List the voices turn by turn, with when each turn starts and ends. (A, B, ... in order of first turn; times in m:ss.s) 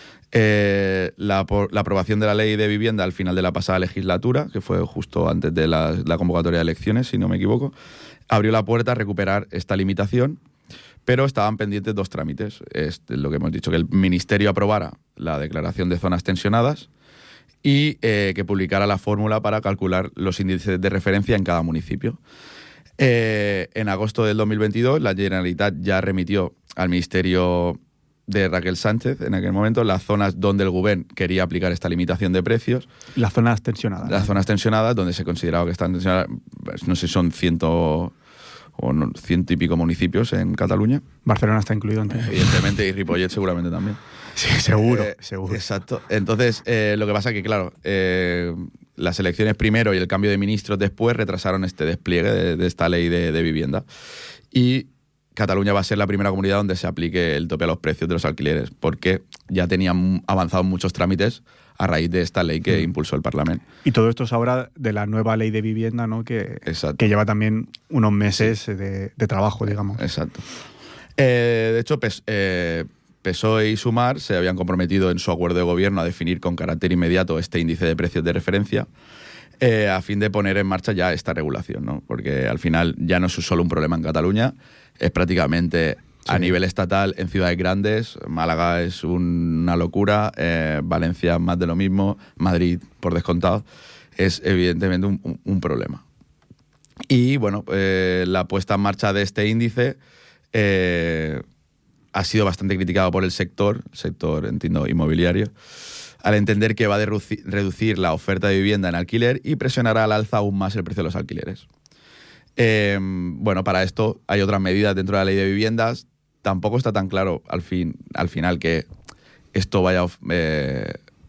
0:00.3-0:07.8 A
0:08.3-0:10.4 A
0:11.1-0:16.9 A
0:17.6-0:22.2 A
0:23.0-0:32.9 A
0:33.2-0:34.3 B
0:34.0-0:38.1 A
0:38.8-0:41.0 A
0:41.3-0:42.6 B
0:42.2-0:44.0 A
0:44.4-0:45.6 B
0:44.7-0:53.9 A
0:54.5-1:03.6 A
1:03.8-1:10.0 B
1:06.7-1:07.0 A
1:10.0-1:10.5 A
1:11.2-1:18.9 A
1:19.6-1:33.7 A
1:34.2-1:36.0 A
1:37.1-1:40.0 A
1:40.5-1:41.4 A
1:42.1-1:45.5 A
1:46.2-1:51.7 A
1:52.6-1:58.9 A
1:59.5-2:01.0 A